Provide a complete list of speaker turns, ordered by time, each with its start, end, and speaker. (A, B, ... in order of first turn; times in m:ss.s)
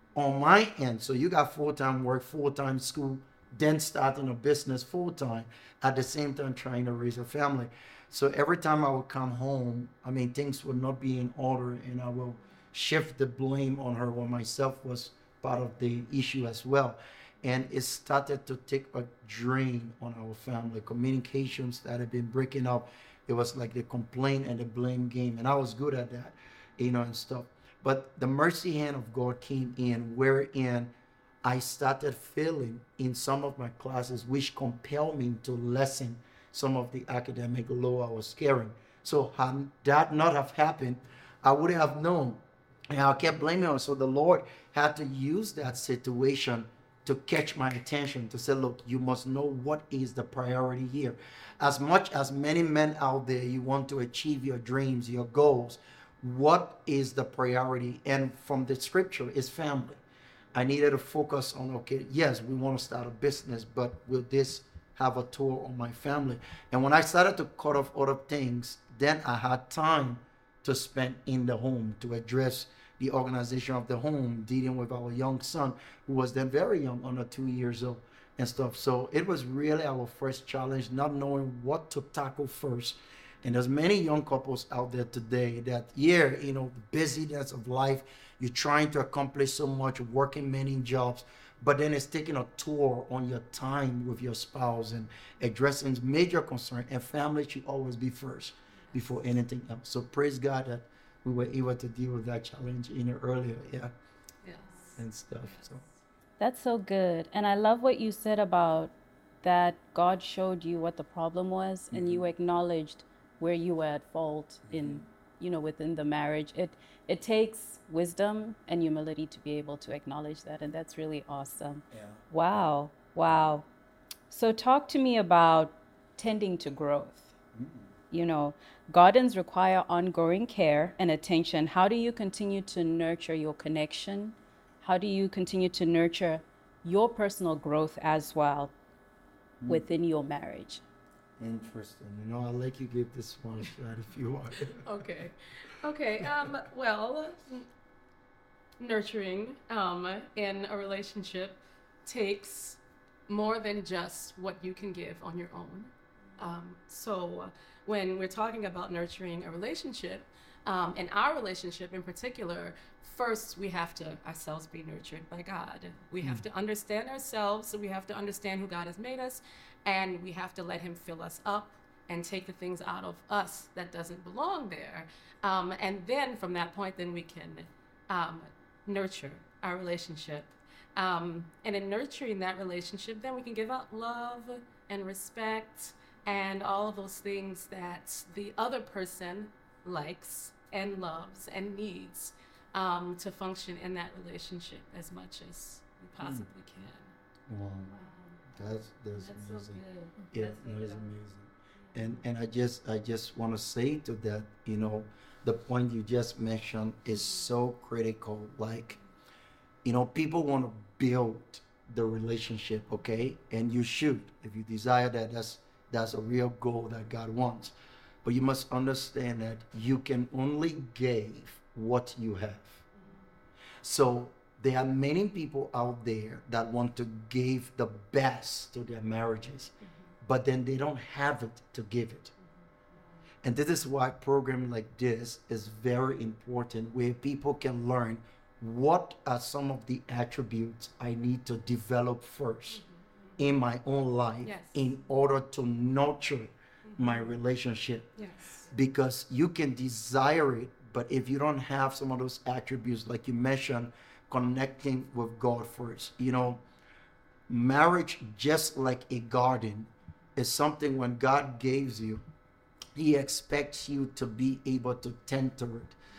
0:00.1-0:30.9 A
0:31.4-1:00.0 A
1:00.5-1:43.9 A
1:45.0-1:45.8 A
1:46.4-2:03.7 B
1:51.9-1:52.2 A
1:54.7-1:55.0 A
2:01.9-2:02.2 A
2:04.3-2:07.3 B
2:07.6-2:07.9 A
2:08.1-2:18.7 B
2:19.6-2:19.8 A
2:19.7-2:20.8 B
2:21.4-2:24.8 A
2:24.8-2:27.7 C
2:28.8-3:17.1 C
3:16.2-3:16.4 A
3:17.5-3:18.0 A
3:18.5-3:29.0 A
3:29.8-3:42.8 A
3:43.8-3:49.7 A
3:50.2-3:52.3 A
3:53.4-4:02.8 A
4:02.7-4:03.0 C
4:03.4-4:08.1 A
4:04.4-4:04.8 C
4:06.8-4:07.4 C
4:08.2-4:08.7 C
4:08.7-4:16.6 A
4:17.5-4:22.2 A
4:23.0-4:26.0 A